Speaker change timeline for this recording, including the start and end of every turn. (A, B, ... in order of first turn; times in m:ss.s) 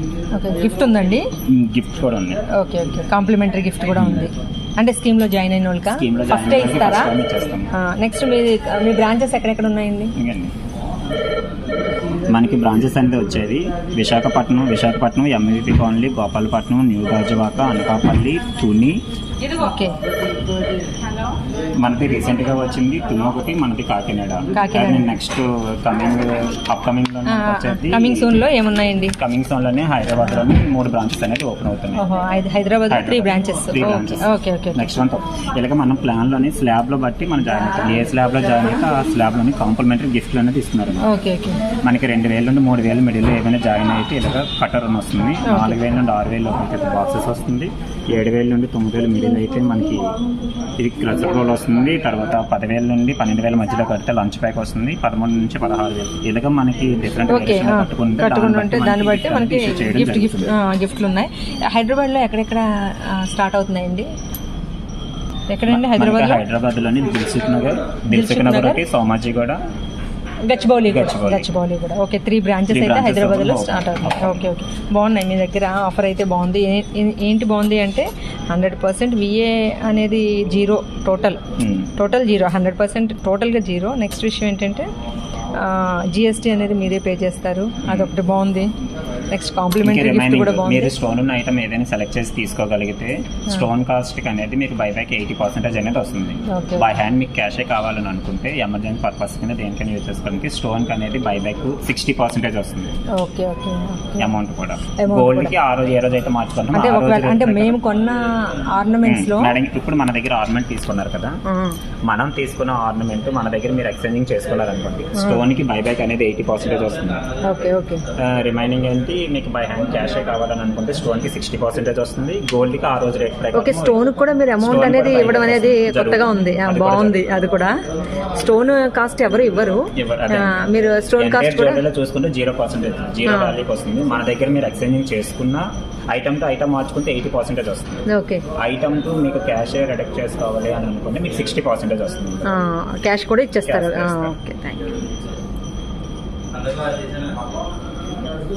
0:00.3-0:01.2 A
0:01.5-0:02.4 B
0:02.6-0:07.1 A
0:04.0-0:04.3 B
0:05.9-0:07.7 B
0:07.8-0:10.1 A
0:10.2-0:10.5 B
0:12.3-0:19.0 B
0:19.6-0:20.0 A
0:21.8-0:28.3 B
0:24.6-0:25.1 A
0:27.3-0:29.2 A
0:29.2-0:32.0 B
0:32.0-0:34.9 A
0:32.9-0:41.0 B
0:41.0-0:41.6 A
0:41.8-0:50.2 B
0:45.5-0:45.8 A
0:50.8-1:00.5 B
0:57.3-1:04.1 A
1:05.5-1:06.4 A
1:05.7-1:09.6 B
1:08.1-1:08.8 A
1:10.4-1:21.4 A
1:10.9-1:11.5 B
1:12.7-1:14.5 B
1:21.6-1:21.9 B
1:22.0-1:24.9 A
1:25.5-1:28.7 A
1:27.8-1:28.1 B
1:29.3-1:30.9 A
1:29.8-1:42.9 B
1:36.5-1:36.8 A
1:43.2-1:44.3 A
1:44.2-1:47.8 B
1:45.0-1:45.5 A
1:46.7-1:49.6 A
1:49.0-1:51.4 B
1:51.5-1:51.8 A
1:52.0-1:57.2 B
1:55.2-1:55.4 A
1:57.4-1:58.0 A
1:58.2-2:04.0 B
2:03.5-2:07.7 A
2:04.6-2:07.2 B
2:08.3-2:11.8 A
2:09.9-2:10.5 B
2:11.2-2:18.0 B
2:13.2-2:13.6 A
2:18.1-2:18.4 A
2:18.6-2:22.5 B
2:22.4-2:24.9 A
2:23.7-2:24.4 B